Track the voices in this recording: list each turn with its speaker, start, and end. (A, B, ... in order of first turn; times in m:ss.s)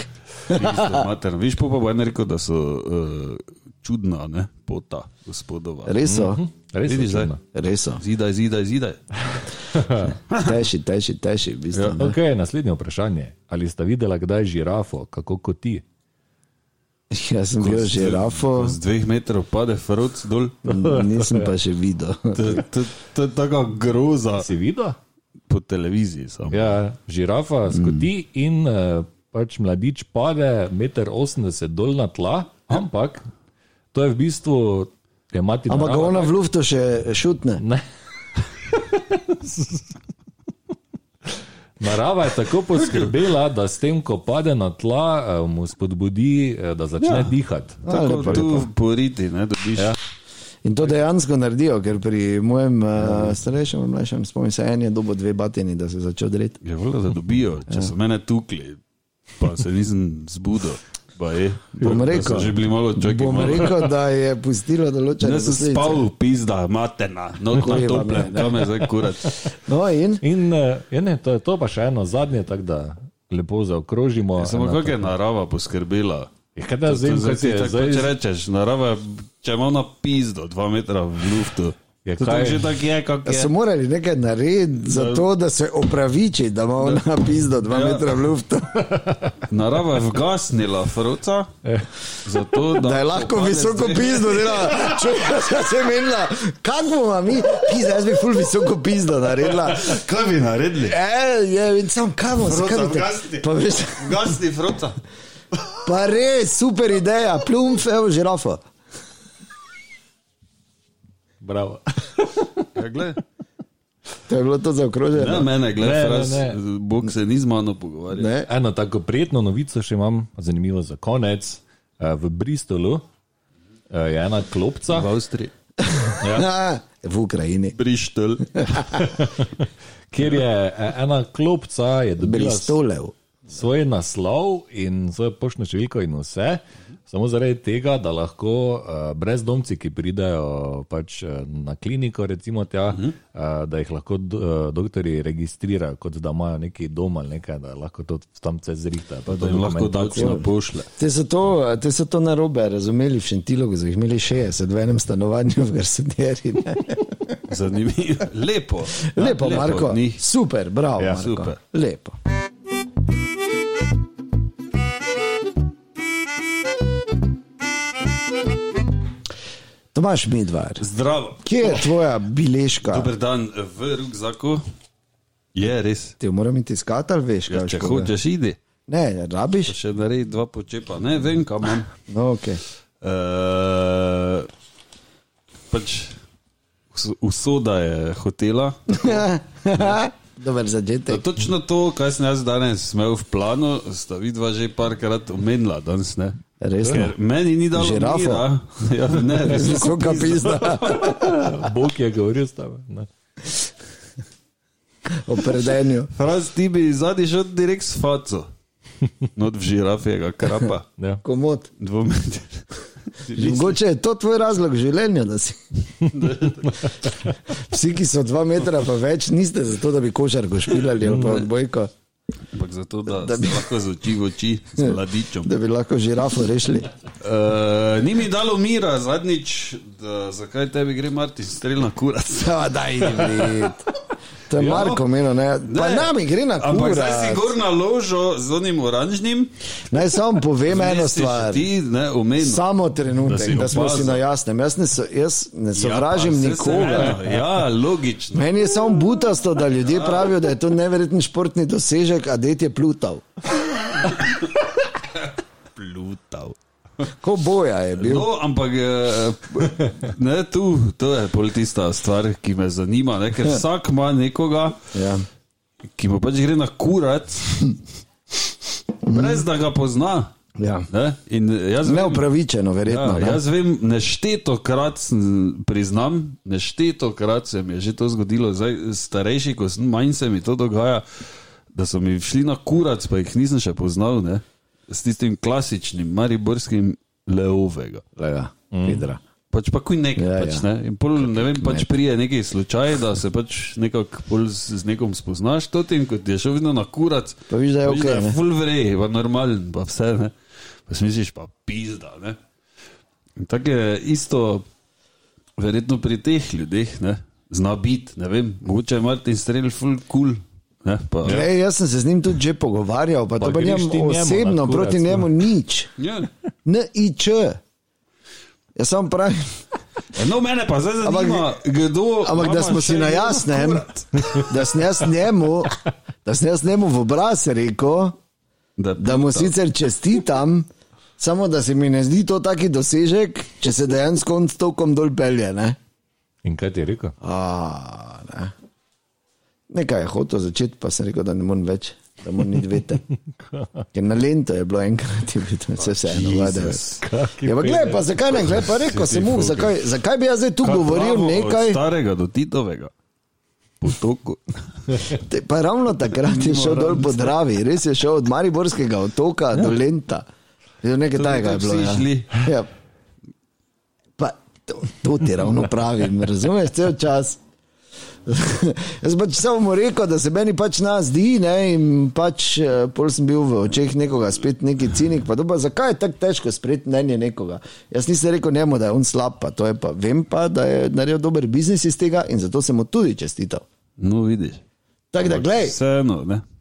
0:00.5-0:06.1 A
0:00.5-0:01.0 B
0:05.9-0:06.4 B
0:06.1-0:07.4 C
0:06.9-0:07.3 A
0:07.5-0:08.0 B
0:08.0-0:09.0 A
0:09.7-0:10.2 C
0:10.3-0:12.2 B
0:11.7-0:12.0 A
0:12.0-0:15.8 C
0:17.1-0:18.8 B
0:17.6-0:20.8 A
0:20.6-0:22.6 B
0:20.7-0:21.5 C
0:22.3-0:24.5 A
0:24.4-0:25.0 C
0:25.5-0:26.8 A
0:26.5-0:33.2 C
0:27.8-0:28.0 B
0:33.9-0:36.3 C
0:35.7-0:37.6 B
0:37.6-0:37.8 C
0:38.4-0:39.9 C
0:41.8-0:48.5 C
0:42.8-0:43.1 A
0:47.0-0:47.3 A
0:47.9-0:48.7 B
0:47.9-0:50.0 A
0:50.6-0:56.6 B
0:56.6-0:58.8 A
0:59.4-1:03.8 A
1:01.8-1:06.1 B
1:05.2-1:09.5 A
1:07.6-1:08.6 B
1:09.5-1:10.2 B
1:10.2-1:15.1 C
1:14.4-1:16.3 A
1:16.6-1:18.1 C
1:16.9-1:23.5 A
1:22.0-1:22.8 C
1:23.2-1:28.9 B
1:24.8-1:25.3 A
1:26.8-1:27.0 A
1:27.7-1:28.1 A
1:28.8-1:29.4 C
1:29.5-1:31.5 A
1:31.6-1:31.9 C
1:32.2-1:35.0 A
1:32.7-1:40.0 B
1:39.5-1:41.0 A
1:40.8-1:44.4 B
1:42.4-1:45.0 A
1:45.8-1:48.6 B
1:51.4-1:52.3 C
1:52.8-1:53.2 A
1:54.3-1:55.5 B
1:55.1-1:58.3 A
1:55.8-1:56.6 C
1:58.1-1:58.5 B
1:58.5-2:03.0 C
2:03.9-2:05.1 C
2:04.9-2:05.5 A
2:05.8-2:07.8 B
2:06.2-2:06.5 C
2:07.7-2:09.1 A
2:08.6-2:08.9 B
2:09.0-2:12.8 C
2:12.2-2:13.2 B
2:13.5-2:30.4 C
2:29.3-2:30.9 A
2:30.2-2:30.4 B
2:31.0-2:37.4 B
2:37.5-2:40.2 A
2:39.0-2:42.2 B
2:41.0-2:41.3 C
2:41.0-2:41.6 A
2:49.9-2:50.8 B
2:50.8-2:51.8 A
2:51.4-2:53.1 B
2:52.8-2:54.6 A
2:55.6-2:56.2 A
2:56.2-2:58.1 B
2:57.5-2:58.6 A
2:58.9-2:59.8 B
2:59.7-3:01.9 A
3:02.1-3:02.6 B
3:03.0-3:04.5 A
3:05.7-3:06.2 A
3:06.9-3:09.2 A
3:08.9-3:11.2 B
3:11.1-3:21.4 A
3:16.6-3:17.1 B
3:17.7-3:18.5 B
3:19.3-3:21.7 B
3:21.1-3:23.1 C
3:25.1-3:26.1 B
3:26.1-3:28.5 A
3:29.4-3:30.9 A
3:31.0-3:31.2 C
3:31.2-3:31.7 B
3:31.8-3:33.8 A
3:33.3-3:35.6 B
3:36.1-3:36.9 A
3:37.5-3:41.9 B
3:41.0-3:41.4 C
3:42.5-3:45.6 A
3:43.1-3:43.7 B
3:44.8-3:46.9 B
3:47.2-3:53.4 A
3:52.4-3:53.8 B
3:54.5-3:57.6 B
3:54.6-3:55.0 A
3:55.6-3:59.5 A
3:59.9-4:01.7 B
4:00.7-4:02.6 A
4:02.4-4:07.2 B
4:03.2-4:04.2 A
4:05.7-4:08.5 A
4:08.3-4:13.3 B
4:09.8-4:10.3 A
4:14.1-4:14.4 A
4:15.2-4:16.6 A
4:17.2-4:18.3 B
4:18.0-4:24.9 A
4:24.9-4:25.3 B
4:26.0-4:27.8 A
4:29.1-4:29.5 B
4:29.1-4:30.3 A
4:30.6-4:30.9 B
4:30.9-4:32.2 A
4:31.8-4:33.4 B
4:32.9-4:48.0 A
4:48.2-4:49.2 B
4:48.7-4:49.1 C
4:49.5-5:00.4 A
4:50.2-4:50.7 B
4:51.3-4:51.9 B
4:57.5-4:58.4 B
5:00.9-5:02.4 A
5:03.4-5:04.7 A
5:05.6-5:11.5 A
5:11.2-5:15.9 B
5:13.4-5:15.4 C
5:16.0-5:16.3 A
5:16.6-5:17.6 B
5:18.8-5:19.6 B
5:20.1-5:24.5 A
5:21.0-5:21.5 B
5:22.2-5:28.2 B
5:28.8-5:29.5 A
5:29.0-5:30.7 B
5:31.2-5:35.8 B
5:36.4-5:37.1 C
5:37.2-5:38.5 B
5:39.7-5:43.0 B
5:43.4-5:43.8 C
5:43.9-5:46.8 B
5:45.8-5:47.0 A
5:47.0-5:48.1 C
5:47.4-5:51.8 B
5:48.5-5:49.8 A
5:50.6-5:52.9 A
5:53.8-5:55.1 A
5:55.1-6:00.2 B
5:56.2-5:57.4 A
6:00.8-6:02.7 B
6:01.1-6:02.4 A
6:04.2-6:07.4 B
6:08.3-6:23.6 B
6:24.0-6:24.6 A
6:25.1-6:25.8 B
6:25.2-6:26.4 A